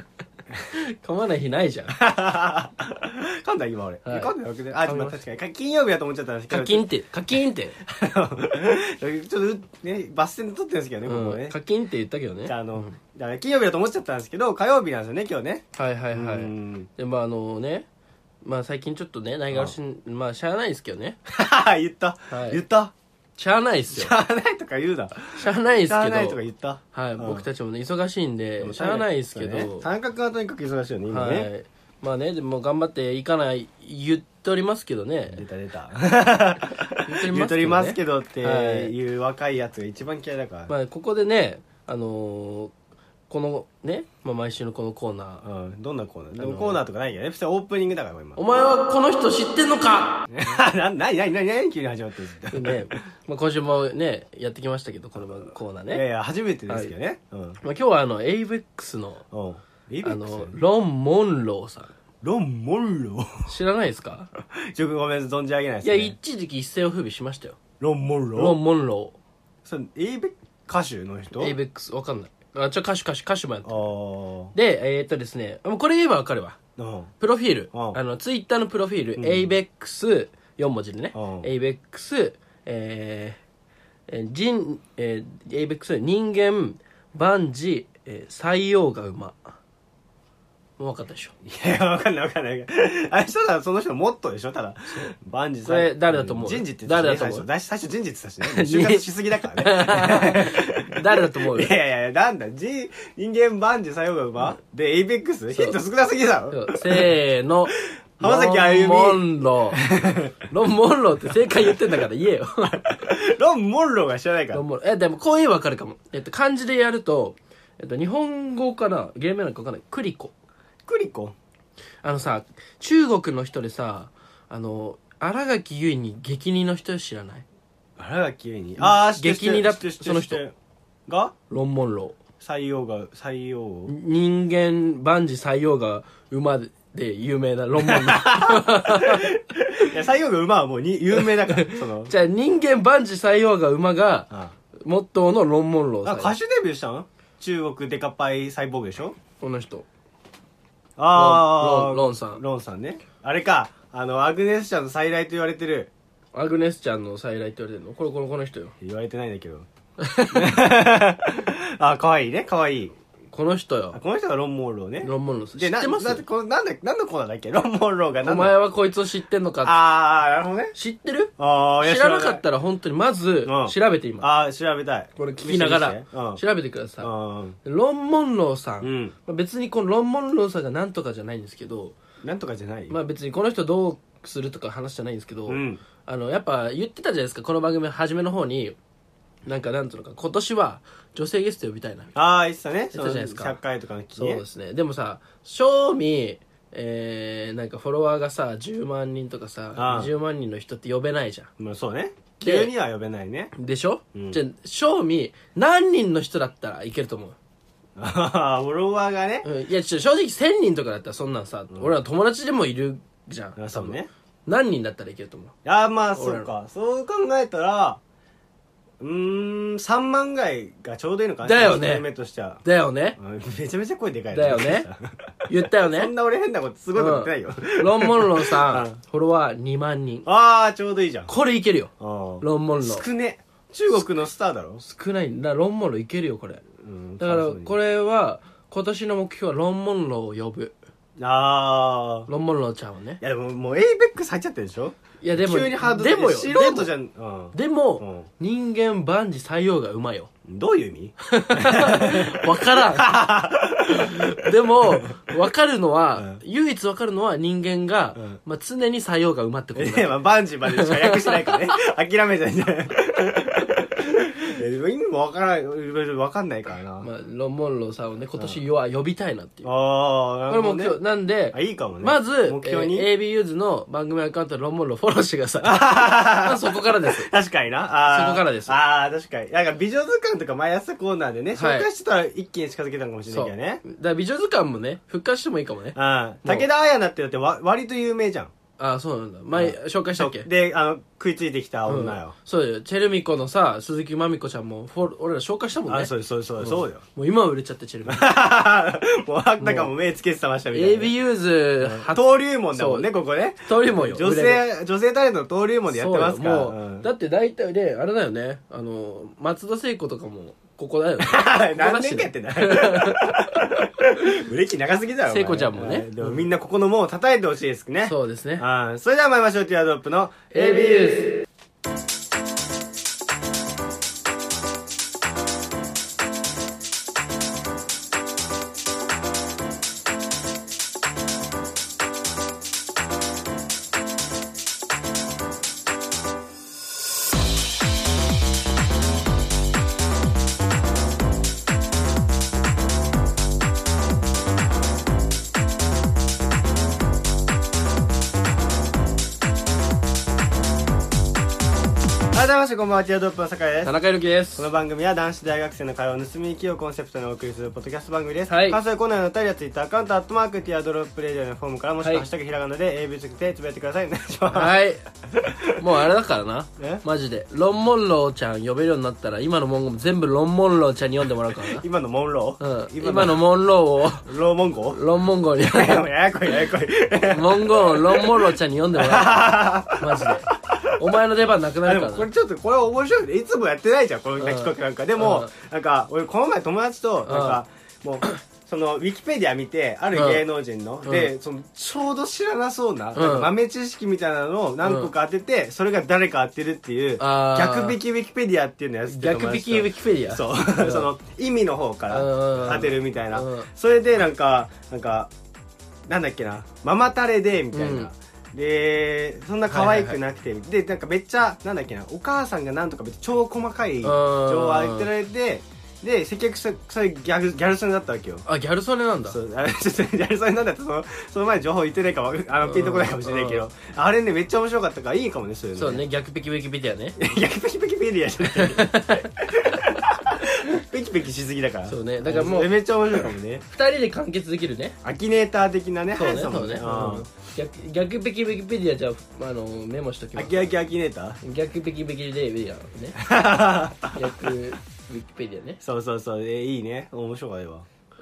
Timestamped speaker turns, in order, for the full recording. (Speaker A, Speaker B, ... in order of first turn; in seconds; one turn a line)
Speaker A: 0.7-1.9
Speaker B: 1.9-6.9
Speaker A: 4.0-4.3
Speaker A: 4.8-5.2
Speaker A: 6.5-7.8
Speaker B: 7.8-11.6
Speaker A: 11.0-12.9
Speaker B: 12.4-16.9
Speaker A: 15.8-17.9
Speaker A: 18.4-21.2
Speaker B: 21.3-22.9
Speaker A: 22.3-22.6
Speaker A: 23.4-24.1
Speaker B: 23.9-27.4
Speaker A: 25.3-26.4
Speaker A: 26.9-29.9
Speaker B: 28.6-31.5
Speaker A: 31.1-35.4
Speaker B: 35.3-40.7
Speaker A: 37.0-38.9
Speaker A: 40.7-42.7
Speaker A: 43.3-45.5
Speaker B: 45.4-48.4
Speaker A: 46.4-46.8
Speaker A: 48.4-50.2
Speaker B: 50.3-52.9
Speaker A: 52.5-56.0
Speaker B: 55.9-57.6
Speaker A: 57.6-59.2
Speaker B: 59.3-60.6
Speaker A: 60.0-61.9
Speaker B: 62.2-63.5
Speaker A: 63.5-64.3
Speaker B: 64.5-66.1
Speaker A: 65.8-67.6
Speaker B: 67.8-68.6
Speaker A: 68.3-69.2
Speaker B: 69.6-71.5
Speaker A: 71.4-73.9
Speaker B: 73.7-74.5
Speaker A: 74.5-76.6
Speaker B: 76.8-77.1
Speaker A: 77.2-83.4
Speaker B: 77.7-78.0
Speaker B: 79.2-79.5
Speaker B: 81.1-81.5
Speaker A: 84.1-89.5
Speaker A: 90.8-91.3
Speaker B: 91.4-107.1
Speaker A: 95.6-97.5
Speaker A: 98.4-101.7
Speaker A: 105.5-105.8
Speaker A: 106.5-109.8
Speaker B: 107.8-110.4
Speaker A: 110.5-113.1
Speaker B: 112.6-114.6
Speaker A: 114.5-120.3
Speaker B: 120.9-121.3
Speaker A: 122.0-127.5
Speaker B: 128.0-130.5
Speaker A: 128.8-130.4
Speaker B: 131.1-131.3
Speaker A: 131.5-132.2
Speaker B: 132.4-133.9
Speaker A: 133.9-139.3
Speaker B: 137.8-142.1
Speaker A: 141.1-146.4
Speaker B: 146.0-149.2
Speaker A: 149.4-149.9
Speaker B: 151.0-155.9
Speaker A: 151.1-152.4
Speaker A: 156.3-158.7
Speaker B: 158.8-159.7
Speaker A: 160.0-160.6
Speaker B: 160.3-162.9
Speaker A: 163.3-164.0
Speaker B: 163.9-168.6
Speaker A: 165.0-166.2
Speaker A: 168.2-169.8
Speaker B: 169.6-170.8
Speaker A: 170.8-174.3
Speaker B: 171.4-172.4
Speaker B: 173.4-176.4
Speaker A: 175.2-177.1
Speaker B: 177.0-177.6
Speaker A: 177.6-181.9
Speaker B: 178.8-179.1
Speaker B: 182.2-182.9
Speaker A: 182.9-188.8
Speaker B: 185.5-185.8
Speaker A: 189.4-192.1
Speaker B: 192.1-194.4
Speaker A: 192.9-193.6
Speaker A: 194.2-201.5
Speaker B: 199.8-200.1
Speaker B: 201.6-203.5
Speaker A: 202.4-202.7
Speaker A: 203.6-207.4
Speaker B: 204.1-204.4
Speaker B: 208.0-209.5
Speaker A: 209.4-215.6
Speaker B: 213.6-214.1
Speaker B: 215.6-218.0
Speaker A: 216.1-216.5
Speaker B: 219.0-222.6
Speaker A: 221.4-222.1
Speaker A: 222.6-223.2
Speaker B: 223.2-229.0
Speaker A: 224.3-224.9
Speaker A: 225.5-226.1
Speaker A: 226.9-230.2
Speaker B: 230.2-231.3
Speaker A: 231.3-233.1
Speaker B: 232.0-234.8
Speaker A: 234.8-236.6
Speaker B: 236.8-237.8
Speaker A: 237.2-240.8
Speaker B: 241.2-242.3
Speaker A: 242.3-243.2
Speaker B: 243.2-248.3
Speaker A: 245.2-246.9
Speaker A: 247.5-250.3
Speaker B: 250.4-255.2
Speaker A: 251.2-253.2
Speaker A: 253.8-261.6
Speaker B: 259.8-267.1
Speaker A: 267.0-269.7
Speaker B: 269.6-271.0
Speaker A: 270.5-277.3
Speaker B: 271.5-273.1
Speaker B: 275.6-283.8
Speaker A: 278.1-278.8
Speaker A: 281.6-281.9
Speaker A: 283.3-286.7
Speaker B: 285.9-288.5
Speaker A: 288.8-290.5
Speaker B: 289.5-292.3
Speaker A: 291.9-298.3
Speaker B: 295.9-297.0
Speaker B: 298.1-301.1
Speaker A: 299.6-299.9
Speaker A: 300.7-303.1
Speaker B: 301.8-307.1
Speaker A: 303.6-304.6
Speaker A: 305.9-313.5
Speaker B: 311.2-321.2
Speaker A: 315.3-316.5
Speaker A: 318.1-318.6
Speaker A: 320.5-321.3
Speaker B: 352.3-353.9
Speaker A: 353.8-354.7
Speaker B: 354.6-364.8
Speaker A: 358.5-358.8
Speaker A: 362.0-362.3
Speaker A: 364.5-365.0
Speaker B: 365.3-365.8
Speaker A: 365.8-371.9
Speaker B: 371.6-373.5
Speaker A: 372.6-374.3
Speaker B: 374.2-375.0
Speaker A: 374.9-376.7
Speaker B: 375.6-381.0
Speaker A: 377.2-382.3
Speaker B: 381.8-405.3
Speaker A: 384.4-385.5
Speaker A: 387.2-387.6
Speaker A: 390.1-390.4
Speaker A: 391.0-391.3
Speaker A: 393.1-393.5
Speaker A: 394.8-395.1
Speaker A: 397.2-398.0
Speaker A: 399.1-401.1
Speaker A: 402.1-403.7
Speaker B: 406.1-418.4
Speaker A: 407.7-408.1
Speaker A: 409.7-410.2
Speaker A: 414.0-415.1
Speaker A: 418.5-419.4
Speaker B: 419.3-426.0
Speaker A: 422.6-423.7
Speaker A: 425.8-427.2
Speaker B: 427.2-433.6
Speaker A: 428.6-429.3
Speaker A: 431.9-435.0
Speaker B: 435.0-437.3
Speaker A: 436.2-440.7
Speaker B: 440.4-441.4
Speaker A: 441.4-443.2
Speaker B: 443.2-444.2
Speaker A: 444.1-445.8
Speaker B: 445.8-447.9